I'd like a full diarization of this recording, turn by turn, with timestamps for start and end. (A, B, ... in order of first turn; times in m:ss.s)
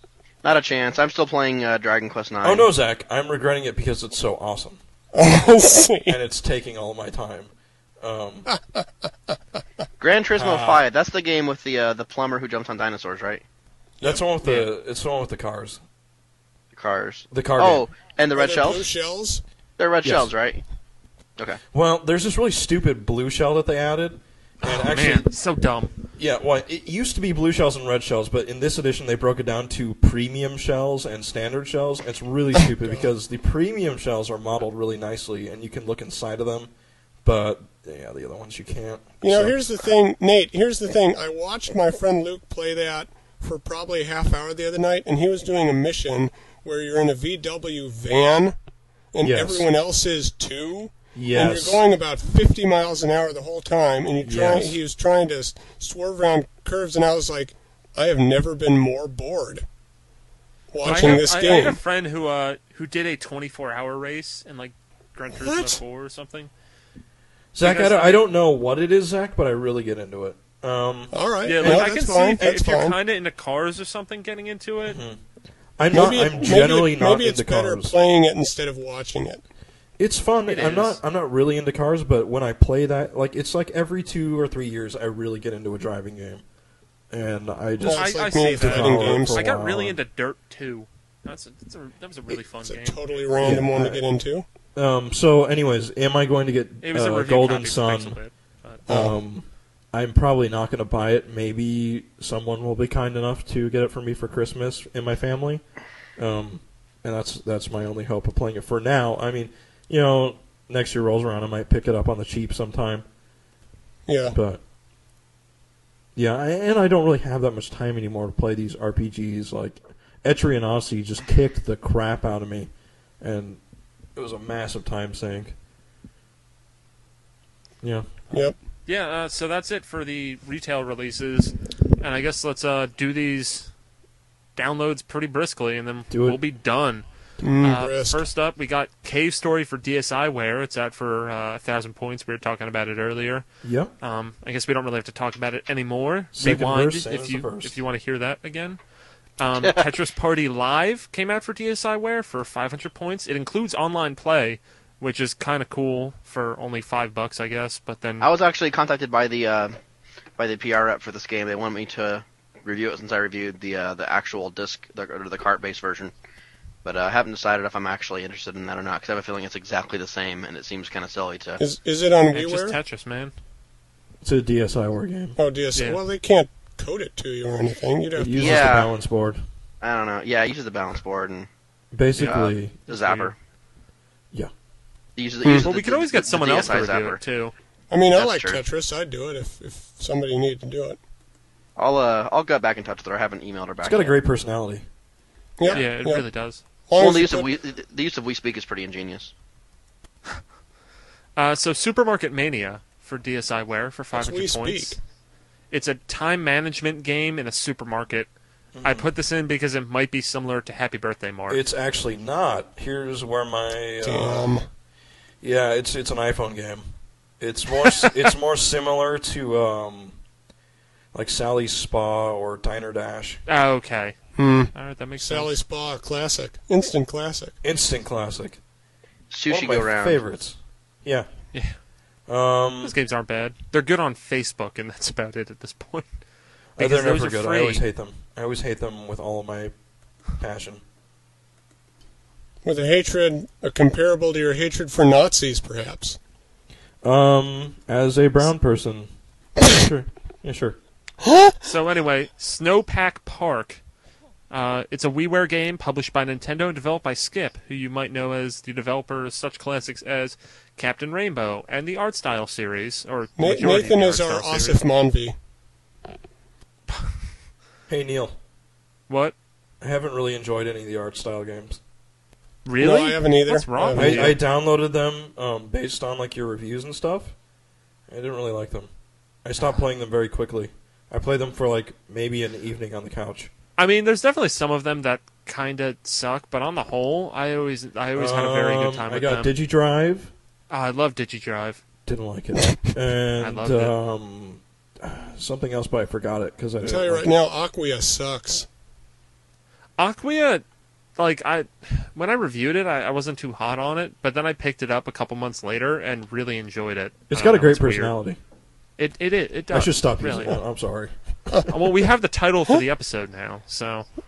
0:00.4-0:02.7 A
0:02.4-0:04.8 B
0:05.1-0:06.2 C
0:06.1-0:08.5 B
0:08.5-0:08.9 C
0:10.0-0:13.4 A
0:10.4-0:10.8 B
0:14.0-0:15.8 B
0:16.7-0:18.9 A
0:17.3-0:17.8 B
0:18.3-0:19.4 C
0:19.8-0:20.6 A
0:20.0-0:20.3 B
0:21.7-0:25.3 B
0:24.6-0:25.9 D
0:26.2-0:36.7 B
0:37.2-0:39.7 B
0:39.2-0:48.6 C
0:49.1-0:59.6 C
0:49.2-0:49.7 B
0:51.2-0:51.8 B
0:54.2-0:54.8 B
1:00.7-1:01.8 C
1:00.8-1:06.5 D
1:05.3-1:05.8 C
1:07.5-1:12.5 B
1:07.6-1:08.2 D
1:11.1-1:13.0 C
1:11.4-1:15.0 D
1:14.9-1:15.2 B
1:15.8-1:17.9 B
1:15.9-1:19.4 C
1:20.0-1:26.4 B
1:20.5-1:21.0 D
1:27.1-1:30.0 B
1:27.8-1:29.4 C
1:27.9-1:33.0 D
1:32.6-1:34.4 C
1:33.4-1:34.0 B
1:34.8-1:38.2 B
1:36.8-1:38.8 D
1:38.9-1:39.2 C
1:38.9-1:45.6 B
1:46.2-1:53.0 B
1:54.1-1:54.4 C
1:54.3-1:54.6 B
1:56.2-2:03.6 B
2:04.2-2:05.6 B
2:07.8-2:08.3 B
2:08.9-2:13.7 D
2:14.6-2:17.0 D
2:16.1-2:16.4 B
2:17.4-2:18.2 C
2:17.6-2:23.5 D
2:23.6-2:23.9 B
2:24.0-2:28.8 D
2:26.3-2:27.8 B
2:29.4-2:38.3 D
2:38.2-2:39.8 A
2:40.4-2:46.1 A
2:46.8-2:51.6 A
2:51.6-2:52.8 C
2:52.3-2:53.3 D
2:54.2-2:55.4 B
2:55.4-2:58.7 C
2:55.8-2:56.0 D
2:58.2-2:59.4 B
2:58.4-2:58.9 A
2:59.8-3:01.5 A
3:01.9-3:02.8 B
3:02.1-3:03.3 D
3:02.2-3:03.4 A
3:05.2-3:07.2 A
3:05.5-3:07.5 D
3:07.9-3:11.0 C
3:08.1-3:08.6 A
3:11.8-3:14.2 A
3:13.8-3:14.8 B
3:15.6-3:16.2 C
3:15.7-3:16.6 D
3:16.9-3:17.5 C
3:17.0-3:19.3 A
3:21.4-3:25.0 D
3:24.1-3:25.0 C
3:25.7-3:28.3 D
3:28.7-3:29.1 B
3:28.8-3:31.6 D
3:31.5-3:34.6 B
3:34.0-3:34.7 C
3:35.4-3:36.8 B
3:37.4-3:40.2 B
3:41.1-3:43.4 B
3:43.5-3:44.2 D
3:44.4-3:47.5 C
3:44.7-3:45.6 D
3:47.6-3:48.6 B
3:49.3-3:50.2 A
3:49.5-3:51.3 B
3:52.3-3:53.0 B
3:52.8-3:56.1 D
3:56.8-3:59.7 B
3:56.8-3:57.8 D
4:00.4-4:00.8 B
4:02.6-4:06.2 C
4:07.0-4:10.8 B
4:11.6-4:13.8 D
4:14.5-4:24.8 D
4:23.4-4:25.4 C
4:27.9-4:28.3 B
4:29.1-4:29.4 D
4:29.8-4:31.8 B
4:32.7-4:34.4 D
4:32.8-4:34.4 C
4:34.0-4:37.3 B
4:38.1-4:38.9 B
4:39.4-4:43.5 B
4:43.8-4:49.5 D
4:48.2-4:50.3 B
4:50.7-4:51.8 D
4:52.1-4:57.3 B
4:53.4-4:54.0 D
4:56.8-4:58.7 C
5:00.0-5:00.6 D
5:01.2-5:08.2 D
5:07.3-5:08.4 B
5:09.0-5:10.6 D
5:09.7-5:11.6 B
5:11.7-5:14.1 D